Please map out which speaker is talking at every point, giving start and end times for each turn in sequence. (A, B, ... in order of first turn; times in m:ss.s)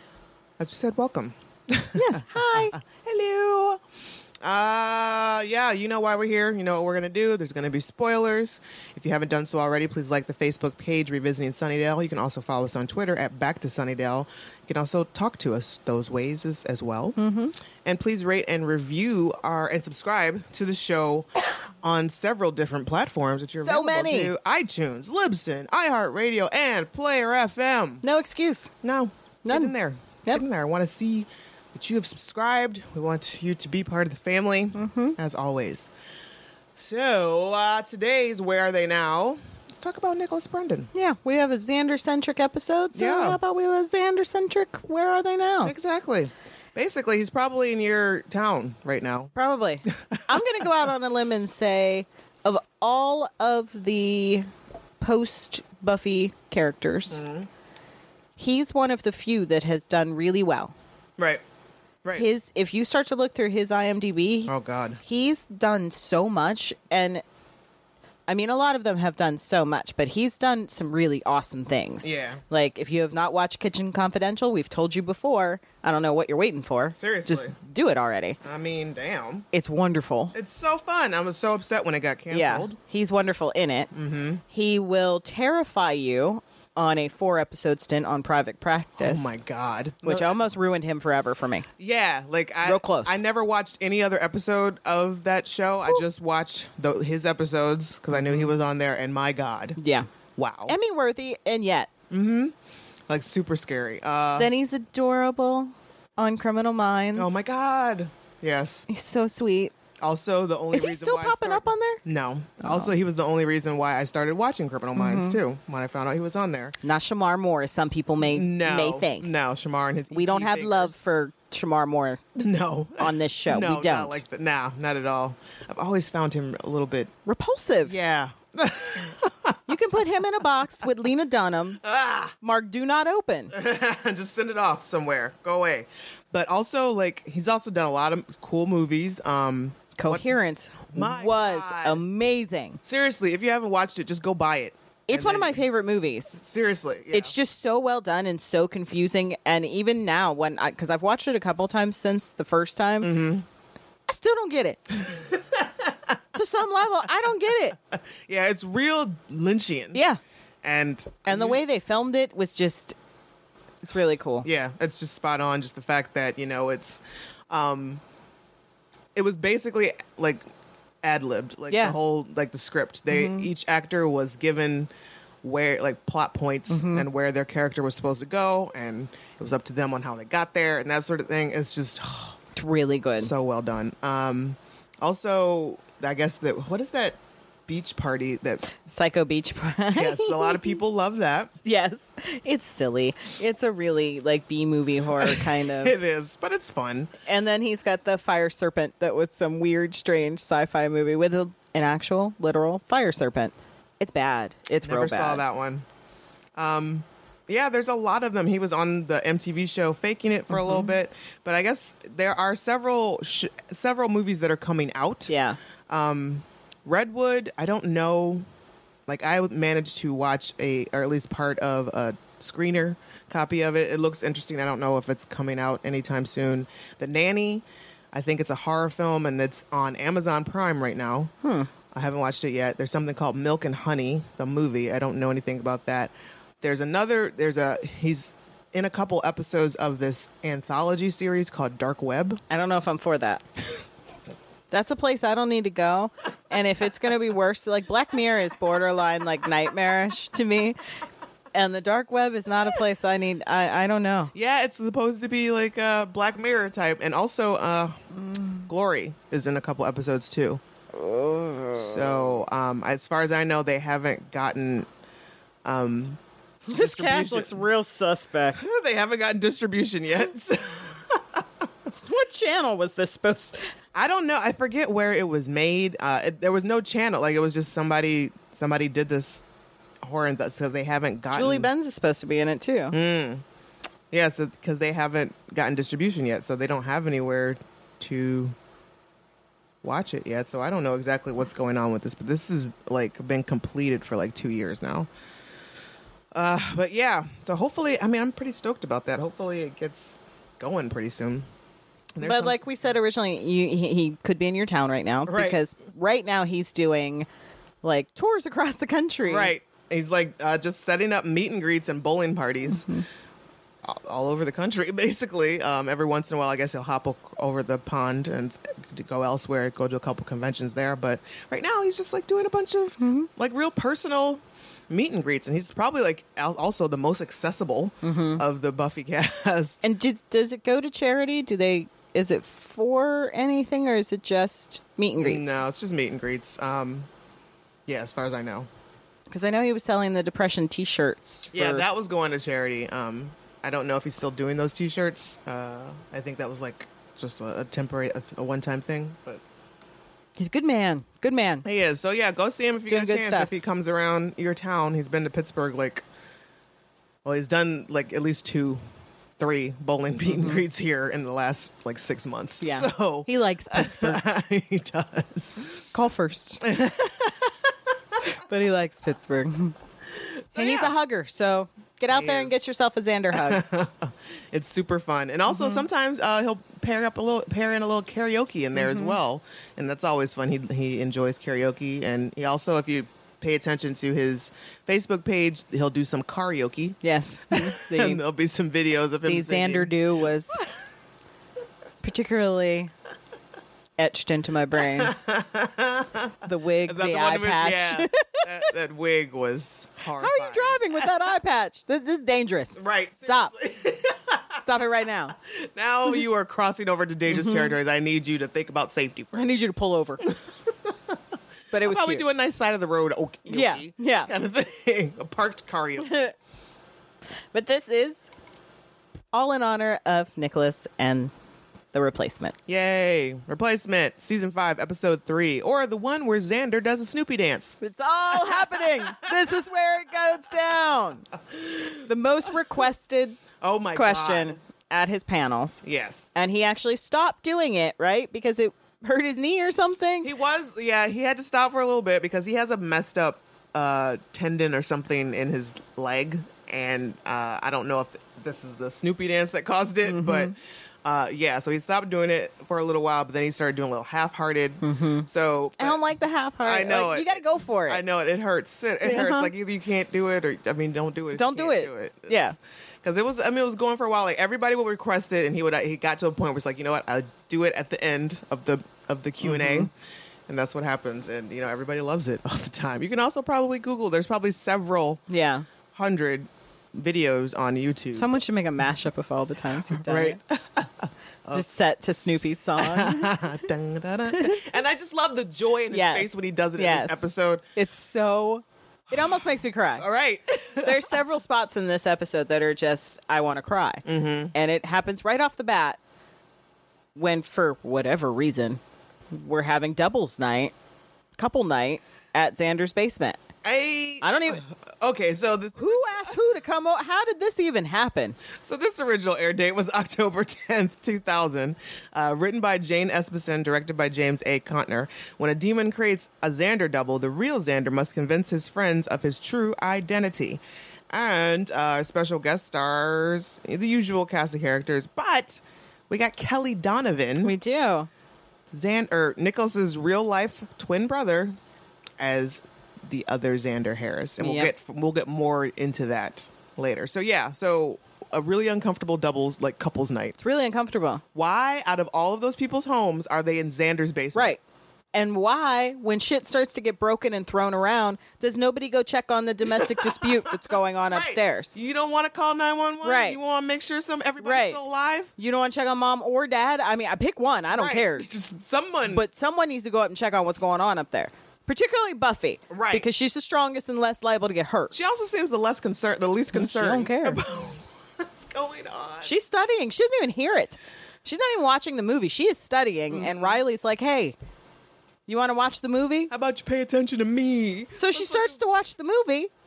0:00.6-0:03.8 A
0:02.0-0:02.8 B
0:04.4-0:17.2 A
0:17.2-0:17.5 B
0:17.8-0:28.0 A
0:23.5-0:24.3 B
0:28.0-0:28.7 B
0:28.8-0:35.9 A
0:29.4-0:29.7 B
0:34.7-0:35.2 B
0:36.8-0:40.9 A
0:40.9-0:45.7 B
0:42.9-0:43.4 A
0:45.6-0:49.3 A
0:49.3-0:54.5 B
0:49.9-0:50.4 A
0:55.0-0:57.2 B
0:57.1-0:57.5 A
0:58.4-1:00.7 B
1:02.2-1:04.5 B
1:04.5-1:05.0 A
1:05.0-1:07.2 B
1:08.3-1:18.4 B
1:12.0-1:12.4 A
1:17.0-1:17.6 A
1:18.4-1:19.5 A
1:19.5-1:20.3 B
1:20.3-1:22.8 A
1:22.3-1:23.9 B
1:23.9-1:24.4 A
1:24.5-1:29.3 B
1:29.0-1:30.4 A
1:30.0-1:31.7 B
1:31.8-1:39.8 A
1:32.6-1:33.2 B
1:38.1-1:38.5 B
1:39.8-1:40.1 B
1:40.4-1:40.8 A
1:40.7-1:41.9 B
1:42.1-1:42.5 A
1:43.1-1:44.5 A
1:44.4-1:47.4 B
1:47.2-1:48.8 A
1:48.9-1:49.7 B
1:50.0-1:56.8 A
1:50.7-1:52.0 B
1:52.6-1:52.9 B
1:55.0-1:55.4 B
1:56.8-1:59.3 B
1:58.2-2:01.0 A
2:00.1-2:02.2 B
2:02.3-2:07.1 A
2:03.0-2:04.2 B
2:07.2-2:07.9 B
2:07.8-2:09.7 A
2:09.7-2:11.8 B
2:11.8-2:12.4 A
2:12.4-2:13.5 B
2:13.5-2:20.3 A
2:20.0-2:22.8 B
2:20.9-2:22.0 A
2:22.8-2:25.6 A
2:25.1-2:26.4 B
2:26.4-2:27.3 A
2:27.1-2:33.2 B
2:33.0-2:33.4 A
2:34.1-2:35.2 B
2:35.0-2:36.2 A
2:36.3-2:37.8 B
2:37.9-2:40.0 A
2:39.9-2:40.2 B
2:40.6-2:41.6 A
2:41.2-2:42.9 B
2:43.8-2:44.5 B
2:44.4-2:48.0 A
2:49.1-2:50.4 A
2:51.0-2:54.9 A
2:51.7-2:52.0 B
2:53.1-2:53.5 B
2:55.4-3:02.4 A
2:56.7-2:57.1 B
3:02.5-3:03.3 B
3:03.2-3:08.7 A
3:08.7-3:10.8 B
3:09.9-3:11.5 A
3:11.6-3:16.0 B
3:15.2-3:17.1 A
3:17.2-3:25.4 B
3:24.8-3:25.8 A
3:26.6-3:35.3 A
3:30.5-3:30.9 B
3:35.3-3:35.6 B
3:35.9-3:38.4 A
3:39.1-3:51.3 A
3:51.4-3:51.7 B
3:51.9-4:02.4 A
4:02.5-4:03.4 B
4:04.7-4:10.8 B
4:11.5-4:14.3 B
4:14.3-4:18.0 A
4:18.2-4:18.6 B
4:18.5-4:20.6 A
4:20.9-4:22.1 B
4:21.7-4:24.9 A
4:25.6-4:26.2 A
4:26.7-4:28.6 B
4:26.7-4:27.6 A
4:28.6-4:31.6 A
4:32.0-4:33.7 B
4:33.9-4:39.4 A
4:40.0-4:41.7 A
4:41.3-4:43.0 B
4:42.9-4:43.4 A
4:44.1-4:48.5 A
4:49.8-4:55.1 A
4:56.3-5:01.4 A
5:02.1-5:02.6 A
5:02.2-5:07.3 B
5:05.2-5:05.6 A
5:07.8-5:09.5 B
5:09.2-5:12.9 A
5:12.7-5:13.0 B
5:13.8-5:29.8 A
5:23.0-5:23.3 B
5:28.0-5:28.4 B
5:29.8-5:35.6 B
5:35.2-5:37.1 A
5:37.9-5:38.7 A
5:39.3-5:41.8 B
5:41.5-5:49.4 A
5:50.4-5:51.6 B
5:51.6-5:56.0 A
5:52.9-5:53.6 B
5:57.2-5:58.8 A
5:59.4-6:05.8 A
6:02.6-6:04.2 B
6:05.9-6:06.6 B
6:06.6-6:07.7 A
6:08.4-6:09.7 B
6:10.5-6:10.9 A
6:10.5-6:13.6 B
6:12.1-6:12.6 A
6:13.3-6:29.9 A
6:15.5-6:15.8 B
6:18.7-6:19.2 B
6:27.0-6:28.2 B
6:29.2-6:30.6 B
6:32.0-6:32.9 B
6:34.0-6:35.1 B
6:34.8-6:41.2 A
6:36.4-6:38.7 B
6:40.1-6:43.5 B
6:42.8-6:44.6 A
6:44.6-6:45.3 B
6:45.4-6:49.5 A
6:47.3-6:47.7 B
6:49.3-6:50.3 B
6:50.2-6:51.2 A
6:51.7-6:52.2 B
6:51.7-6:56.3 A
6:53.5-6:54.3 B
6:56.0-6:56.3 B
6:57.5-6:58.3 B
6:59.3-7:01.3 B
7:01.9-7:02.6 B
7:02.7-7:07.8 A
7:07.8-7:11.2 B
7:08.3-7:09.6 A
7:11.5-7:12.1 A
7:12.0-7:13.4 B
7:13.6-7:14.6 A
7:13.9-7:15.8 B
7:15.8-7:16.3 A
7:16.3-7:20.3 B
7:20.2-7:36.0 A
7:30.0-7:30.5 B
7:34.8-7:35.3 B
7:35.8-7:38.0 B
7:36.6-7:42.4 A
7:39.0-7:39.5 B
7:41.3-7:42.6 B
7:43.0-7:49.9 A
7:49.4-7:49.9 B
7:50.5-7:55.2 A
7:55.3-7:55.6 B
7:55.9-7:58.3 A
7:58.1-8:00.4 B
7:59.9-8:01.7 A
8:01.5-8:03.4 B
8:02.8-8:07.6 A
8:04.3-8:04.6 B
8:05.9-8:07.2 B
8:07.8-8:10.1 B
8:09.1-8:11.2 A
8:10.8-8:16.0 B
8:14.0-8:14.5 A
8:17.1-8:18.8 B
8:19.3-8:20.7 B
8:21.4-8:23.4 B
8:23.6-8:26.4 A
8:24.2-8:24.6 B
8:25.8-8:28.4 B
8:28.5-8:40.6 A
8:41.1-8:47.5 A
8:47.4-8:48.1 B
8:48.7-8:51.5 A
8:52.2-9:00.4 A
8:54.4-8:54.7 B
9:00.4-9:01.2 B
9:01.3-9:04.6 A
9:04.3-9:04.6 B
9:05.1-9:11.7 B
9:09.8-9:15.3 A
9:13.0-9:13.4 B
9:14.4-9:14.8 B
9:15.4-9:18.3 B
9:17.7-9:19.2 A
9:19.1-9:24.9 B
9:22.7-9:23.0 A
9:24.9-9:29.3 A
9:26.5-9:27.4 B
9:29.2-9:34.4 B
9:33.1-9:33.6 A
9:35.3-9:36.3 B
9:36.3-9:38.6 A
9:37.9-9:39.5 B